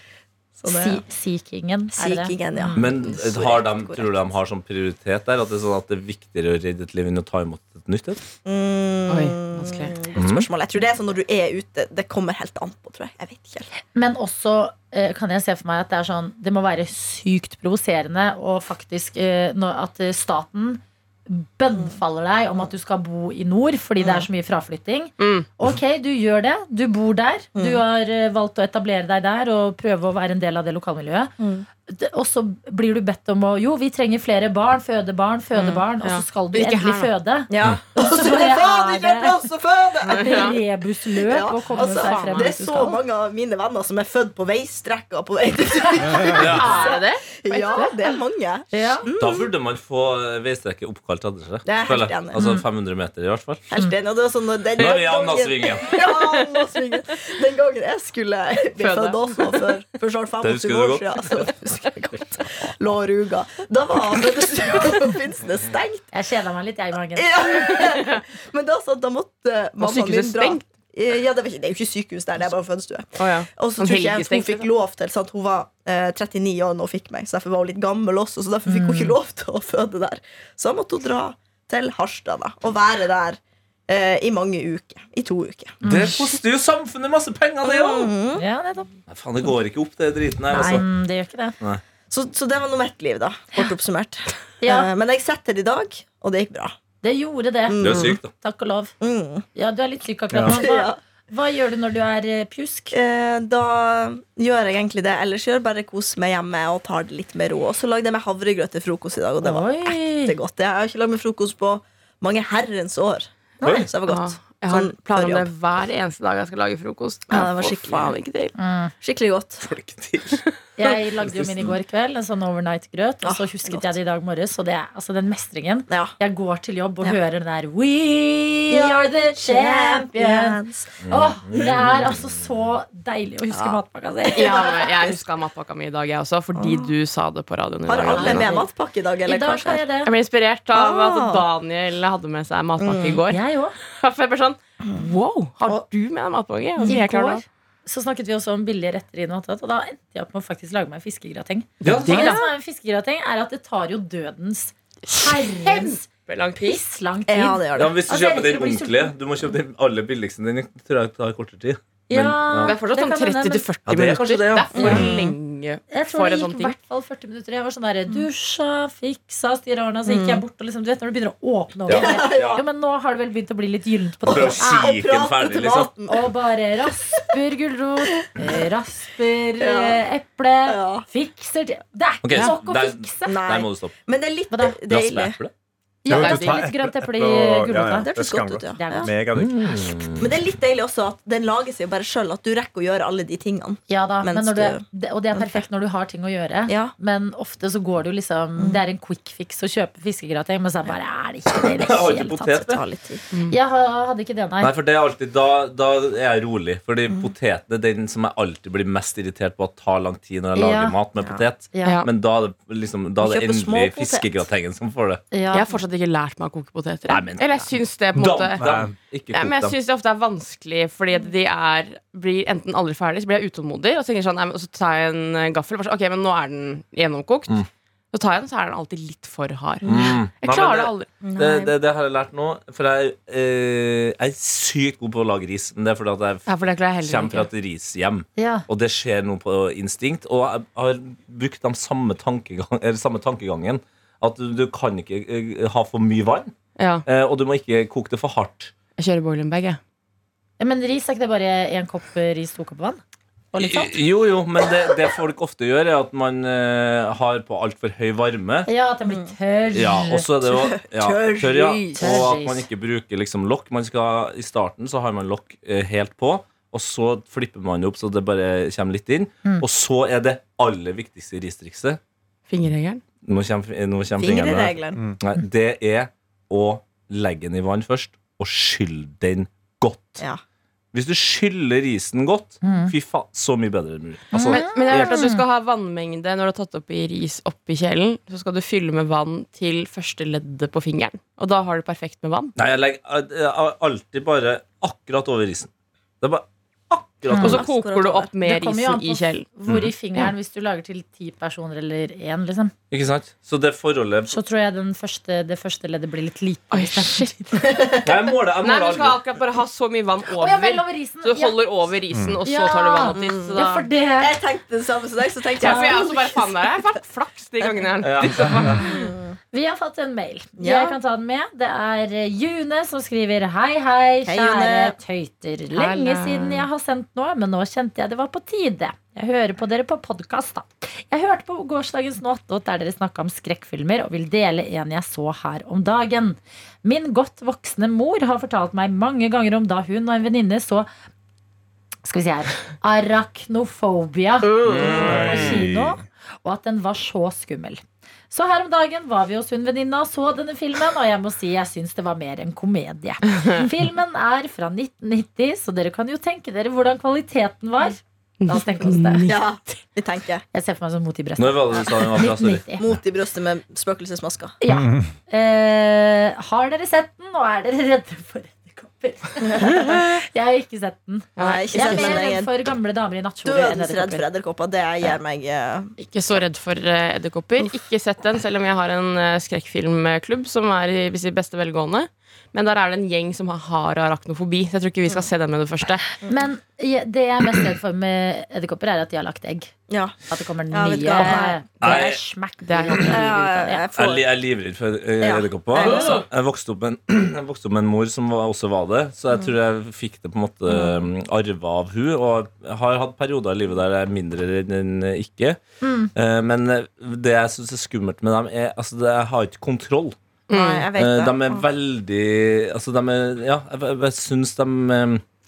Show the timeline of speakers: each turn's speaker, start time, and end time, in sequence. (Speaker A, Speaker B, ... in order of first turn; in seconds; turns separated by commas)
Speaker A: 0.6-1.0, Speaker B: 0.7-2.9, Speaker A: 1.9-4.3, Speaker C: 2.8-8.2, Speaker A: 8.4-13.7, Speaker D: 9.1-9.9, Speaker C: 10.2-10.5, Speaker B: 13.9-31.3, Speaker A: 24.0-24.3, Speaker D: 25.2-25.5, Speaker A: 27.6-27.8, Speaker A: 31.4-31.6, Speaker B: 31.9-39.4, Speaker D: 36.0-37.1, Speaker A: 37.5-40.6, Speaker D: 40.1-40.6, Speaker B: 40.1-43.0, Speaker A: 41.2-49.5, Speaker D: 41.7-42.5, Speaker C: 46.3-46.9, Speaker D: 46.4-48.0, Speaker B: 48.7-49.1, Speaker C: 49.2-53.7, Speaker A: 51.6-52.4, Speaker B: 52.4-52.6, Speaker A: 53.7-66.1, Speaker C: 54.8-56.0, Speaker D: 58.8-59.7, Speaker C: 60.4-61.4, Speaker B: 66.1-67.7, Speaker A: 67.2-85.8, Speaker D: 69.8-70.6, Speaker D: 73.2-74.7, Speaker B: 78.7-79.2, Speaker B: 85.8-86.3, Speaker C: 85.8-88.1, Speaker A: 87.6-88.4, Speaker B: 88.4-88.9, Speaker C: 89.1-90.8, Speaker B: 90.5-91.6, Speaker A: 92.1-96.8, Speaker B: 94.6-94.9, Speaker B: 97.0-98.9, Speaker A: 97.7-98.2, Speaker C: 97.8-98.3, Speaker A: 99.0-99.4, Speaker B: 99.5-102.9, Speaker E: 100.3-100.6, Speaker A: 100.5-101.0, Speaker A: 102.9-115.5, Speaker B: 109.4-110.3, Speaker C: 113.6-113.9, Speaker D: 114.0-118.5, Speaker A: 117.3-118.2, Speaker B: 118.6-118.9, Speaker A: 119.0-119.7, Speaker C: 119.6-120.4, Speaker B: 120.8-134.8, Speaker C: 121.2-121.7, Speaker A: 123.2-123.9, Speaker A: 125.9-126.1, Speaker A: 128.7-130.9, Speaker C: 131.0-132.4, Speaker A: 133.5-135.2, Speaker D: 134.3-138.6, Speaker A: 136.6-136.9, Speaker A: 137.9-139.8, Speaker B: 138.1-138.7, Speaker B: 139.3-140.1, Speaker D: 140.1-147.4, Speaker A: 140.7-141.4, Speaker A: 142.8-143.2, Speaker B: 143.3-143.8, Speaker B: 146.8-156.1, Speaker D: 151.8-152.4, Speaker C: 151.8-152.4, Speaker D: 155.5-156.8, Speaker B: 156.6-159.1, Speaker A: 157.3-158.0, Speaker C: 157.8-162.8, Speaker B: 162.1-163.6, Speaker D: 162.6-166.8, Speaker C: 163.9-165.1, Speaker A: 164.7-165.3, Speaker B: 164.8-165.1, Speaker B: 165.9-174.9, Speaker A: 170.1-170.4, Speaker C: 171.9-172.6, Speaker A: 171.9-172.6, Speaker C: 174.3-175.9, Speaker A: 174.3-176.3, Speaker B: 176.1-183.4, Speaker A: 179.6-180.0, Speaker A: 180.7-181.1, Speaker C: 182.2-183.9, Speaker A: 183.3-185.4, Speaker B: 184.5-184.8, Speaker C: 184.9-185.5, Speaker B: 186.0-188.1, Speaker E: 186.1-189.9, Speaker D: 186.1-186.6, Speaker A: 188.0-189.1, Speaker B: 188.8-189.1, Speaker C: 189.3-190.3, Speaker A: 190.2-194.8, Speaker B: 193.9-202.8, Speaker A: 195.3-195.6, Speaker A: 196.7-196.9, Speaker C: 201.7-202.8, Speaker A: 202.6-203.2, Speaker B: 203.5-204.7, Speaker C: 204.6-215.2, Speaker B: 210.6-211.0, Speaker B: 211.7-212.1, Speaker A: 213.2-214.4, Speaker B: 215.3-215.7, Speaker D: 215.5-218.6, Speaker C: 217.1-219.8, Speaker E: 218.6-218.9, Speaker D: 219.3-227.5, Speaker D: 228.1-231.1, Speaker A: 229.8-230.2, Speaker C: 229.8-236.5, Speaker A: 231.2-231.8, Speaker D: 236.4-237.5, Speaker C: 237.0-246.5, Speaker B: 238.4-238.7, Speaker D: 246.8-247.1, Speaker C: 247.1-248.7, Speaker D: 249.0-249.8, Speaker B: 250.6-253.0, Speaker B: 253.5-253.9, Speaker C: 253.6-258.7, Speaker B: 258.7-260.3, Speaker C: 259.7-272.0, Speaker A: 260.5-262.3, Speaker B: 261.9-262.7, Speaker D: 272.5-273.0, Speaker C: 273.2-280.2, Speaker A: 274.2-275.1, Speaker C: 280.9-285.3, Speaker B: 282.6-282.9, Speaker B: 284.3-285.4, Speaker D: 284.5-292.5, Speaker C: 292.6-297.6, Speaker B: 297.3-297.6, Speaker A: 297.4-298.3, Speaker D: 297.4-299.5, Speaker B: 298.4-302.7, Speaker C: 299.7-299.9, Speaker C: 302.9-304.4, Speaker B: 304.3-307.6, Speaker D: 306.7-307.4, Speaker A: 307.6-308.2, Speaker C: 308.0-309.2, Speaker D: 308.6-313.9, Speaker B: 310.3-311.6, Speaker B: 312.4-314.4, Speaker A: 313.1-313.6, Speaker A: 314.2-316.8, Speaker D: 315.6-319.0, Speaker B: 315.6-316.1, Speaker C: 318.0-318.8, Speaker A: 318.6-319.4, Speaker B: 319.5-340.9, Speaker A: 320.6-321.0, Speaker A: 324.2-324.9, Speaker D: 325.7-326.7, Speaker B: 342.1-359.3, Speaker D: 344.4-345.3, Speaker C: 344.6-345.7, Speaker E: 345.1-346.0, Speaker D: 358.4-359.4, Speaker A: 359.3-360.4, Speaker B: 360.5-362.8, Speaker C: 361.4-362.6, Speaker A: 362.8-364.6, Speaker B: 364.6-374.3, Speaker E: 364.7-365.1, Speaker A: 369.4-370.0, Speaker D: 371.4-372.3, Speaker A: 371.4-372.5, Speaker A: 373.4-375.9, Speaker D: 376.0-386.1, Speaker B: 386.2-389.7, Speaker A: 389.9-390.2, Speaker B: 390.3-393.9, Speaker A: 390.7-391.6, Speaker C: 391.8-392.2, Speaker D: 392.6-393.4, Speaker A: 393.1-394.3, Speaker C: 393.9-405.6, Speaker A: 395.2-396.2, Speaker B: 395.8-396.2, Speaker A: 400.7-401.0, Speaker B: 405.8-406.1, Speaker C: 406.1-410.1, Speaker D: 410.5-410.9, Speaker A: 410.5-411.6, Speaker C: 410.9-415.2